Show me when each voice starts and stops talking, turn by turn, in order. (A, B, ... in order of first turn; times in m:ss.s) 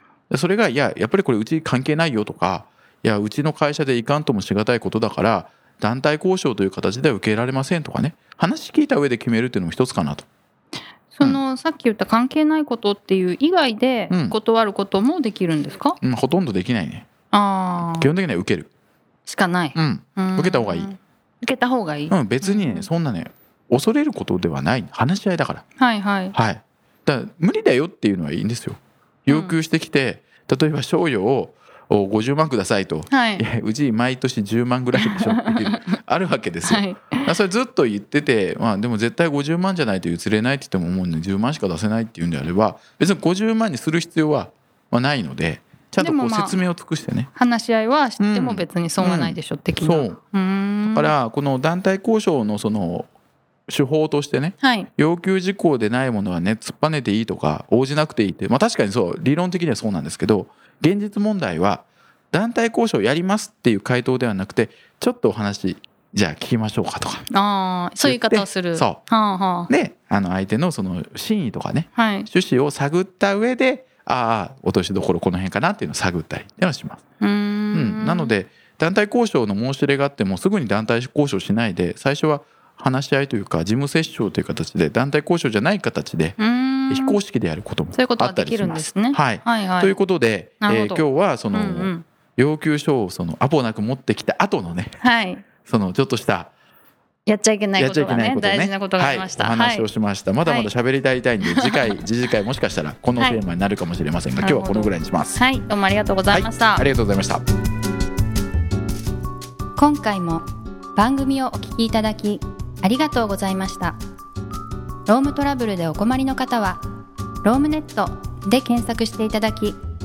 0:00.3-0:10.2 A
0:11.1-0:16.0 B
0:14.1-0:14.4 A
0:16.0-0:17.0 A
0:17.3-0:18.1 B
0:18.0-0:18.7 A
0:19.2-0:22.9 B
0:19.7-0:20.9 A
0:22.1-0:25.6 A
0:25.8-0:26.3 B
0:26.3-0:47.3 A
0:29.3-0:29.6 B
0:33.1-0:33.4 B
0:35.0-0:35.9 B
0:36.6-0:37.3 B
0:46.0-0:46.6 B
0:47.3-0:51.1 B
0:48.2-0:50.2 A
0:50.9-0:53.1 A
0:53.7-1:07.2 A
0:54.6-0:54.9 B
1:07.3-1:09.7 B
1:08.0-1:09.0 A
1:09.7-1:17.0 A
1:12.0-1:12.3 B
1:17.2-1:18.4 B
1:17.7-1:26.4 A
1:26.4-1:27.2 B
1:26.9-1:34.9 A
1:27.9-1:29.9 B
1:30.6-1:32.0 B
1:35.0-1:35.4 B
1:35.6-1:36.5 A
1:37.2-1:39.9 B
1:37.8-1:45.4 A
1:40.4-1:40.7 B
1:41.4-1:42.0 B
1:44.4-1:46.8 B
1:46.3-1:47.4 A
1:49.8-1:50.4 B
1:51.0-1:54.0 B
1:55.0-1:56.8 B
1:57.4-1:59.8 B